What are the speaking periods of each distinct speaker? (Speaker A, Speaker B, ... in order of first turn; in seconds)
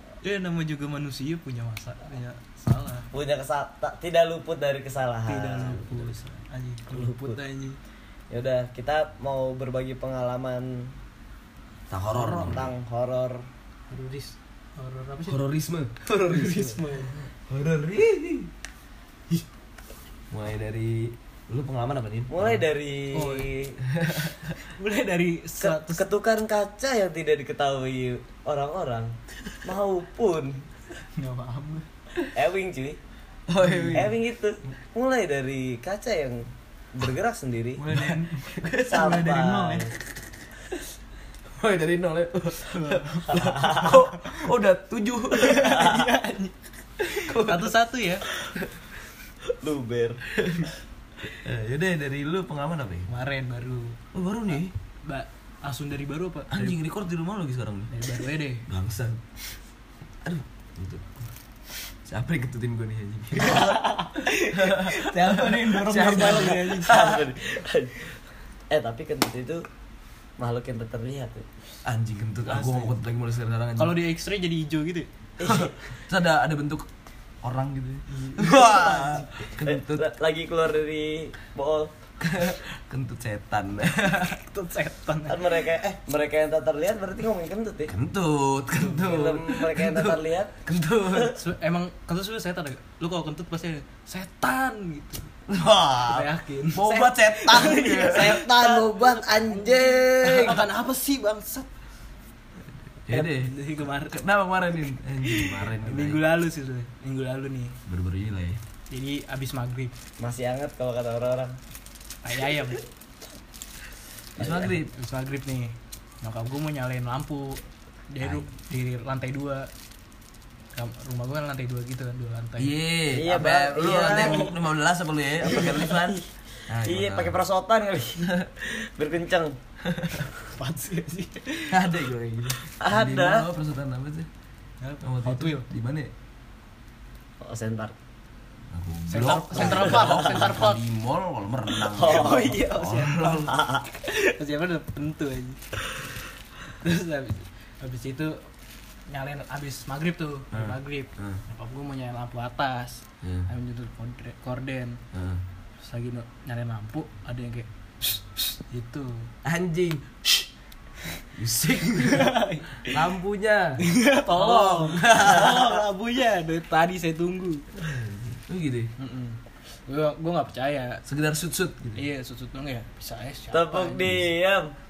Speaker A: 0.2-3.1, 5.3-7.8, 13.9-15.4, 16.1-17.3, 23.1-23.5, 24.6-26.1, 31.1-31.9, 33.6-34.1, 37.8-39.9, 42.7-43.9, 45.4-48.2, 53.1-54.0, 55.0-56.8, 57.9-58.7, 63.4-67.1, 72.5-73.0, 73.8-75.1, 78.1-79.3, 84.0-85.4, 91.3-95.3, 96.0-101.7, 103.1-104.3, 105.2-107.8, 108.9-109.9, 112.2-112.8, 114.9-119.7, 120.7-122.7, 124.0-124.5, 130.5-131.8, 134.8-135.7, 139.1-140.8, 142.0-146.0, 146.7-148.5, 149.1-155.0, 155.8-159.3, 162.1-163.0, 163.8-167.7, 169.0-171.0, 171.9-174.1
Speaker B: 3.1-6.1, 6.9-7.4, 8.3-10.9, 12.1-13.5, 22.3-23.8, 25.6-30.6, 32.3-33.0, 33.9-37.8, 38.8-39.9, 45.7-46.1, 49.5-50.2, 66.0-68.2, 68.7-69.6, 70.4-71.5, 75.4-75.8, 79.0-81.9, 85.3-87.9, 88.8-90.6, 96.9-100.6, 110.2-111.6, 114.4-114.7, 123.1-124.5, 125.5-129.6, 132.8-133.5, 137.4-137.9, 139.6-140.3, 141.9-142.5, 143.5-143.8, 173.5-174.7
Speaker C: 11.9-12.8, 15.3-16.7, 17.5-18.5, 20.3-22.6, 23.9-24.6, 33.5-34.1, 37.9-39.2, 41.5-45.8, 47.0-47.7, 48.5-48.8, 50.4-50.7, 51.4-53.1, 54.1-54.7, 56.5-57.9, 58.7-59.4, 60.2-61.3, 62.0-63.8, 64.5-67.2, 71.8-73.9, 75.4-76.9, 77.4-80.1, 82.2-84.3, 87.9-91.4, 95.5-98.4, 103.1-103.5, 104.1-106.2, 107.8-108.6, 114.4-114.9, 118.2-118.5, 122.6-127.3, 129.8-130.2, 131.7-134.3, 135.0-136.1, 138.7-143.6, 150.5-151.4, 153.2-153.5, 155.1-155.4, 159.4-160.4, 161.3-165.6, 167.8-168.9, 171.1-172.0